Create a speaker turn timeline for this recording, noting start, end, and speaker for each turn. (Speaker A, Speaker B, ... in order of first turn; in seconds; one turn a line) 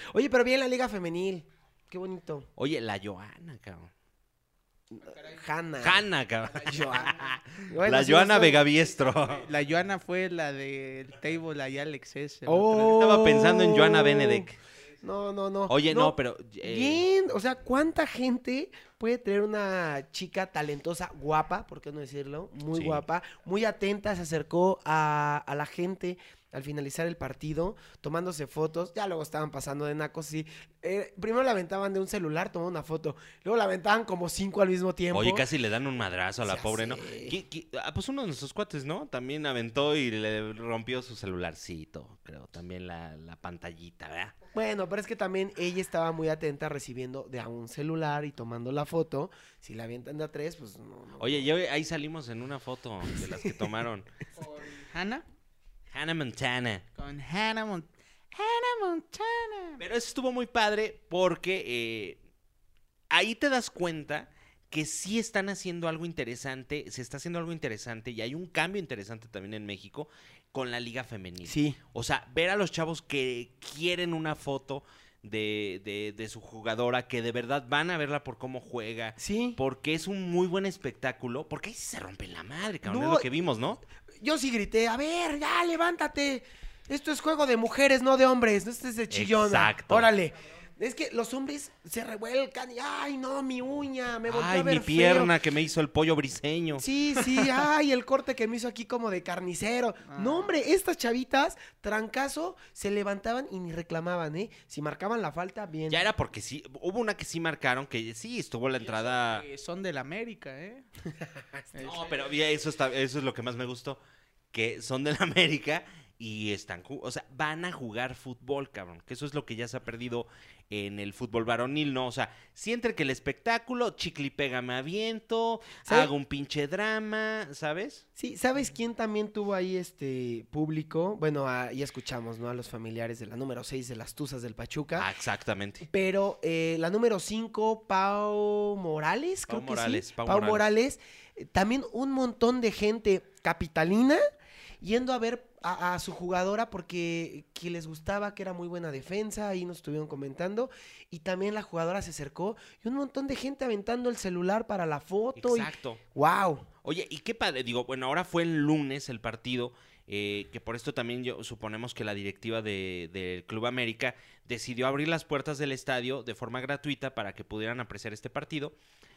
Speaker A: 0.1-2.5
Speaker B: 2.6-3.9
Speaker A: 4.9-6.1
Speaker B: 5.8-9.5
Speaker A: 6.6-7.1
Speaker A: 7.7-8.6
Speaker C: 9.2-13.0
Speaker A: 12.4-35.5
Speaker B: 12.9-14.6
Speaker B: 15.7-17.0
Speaker B: 22.7-23.0
Speaker B: 35.1-44.3
Speaker A: 36.4-37.4
Speaker A: 44.5-51.5
Speaker B: 51.2-54.1
Speaker A: 53.2-53.5
Speaker C: 54.4-55.2
Speaker B: 55.9-56.8
Speaker C: 57.0-59.8
Speaker B: 59.8-62.2
Speaker B: 63.1-83.8
Speaker A: 71.4-71.8
Speaker A: 79.2-79.6
Speaker A: 82.8-83.2
Speaker A: 84.2-95.3
Speaker B: 89.1-90.1
Speaker B: 94.3-96.8
Speaker A: 96.8-106.0
Speaker C: 100.1-100.5
Speaker B: 105.9-109.4
Speaker C: 108.8-110.8
Speaker A: 111.2-111.7
Speaker C: 111.7-112.1
Speaker B: 111.8-114.0
Speaker B: 114.5-128.0
Speaker A: 125.8-126.1
Speaker A: 128.2-135.1
Speaker B: 135.0-135.8
Speaker A: 135.8-144.2
Speaker B: 139.5-140.7
Speaker A: 144.8-156.7
Speaker B: 155.4-156.0
Speaker B: 156.8-168.7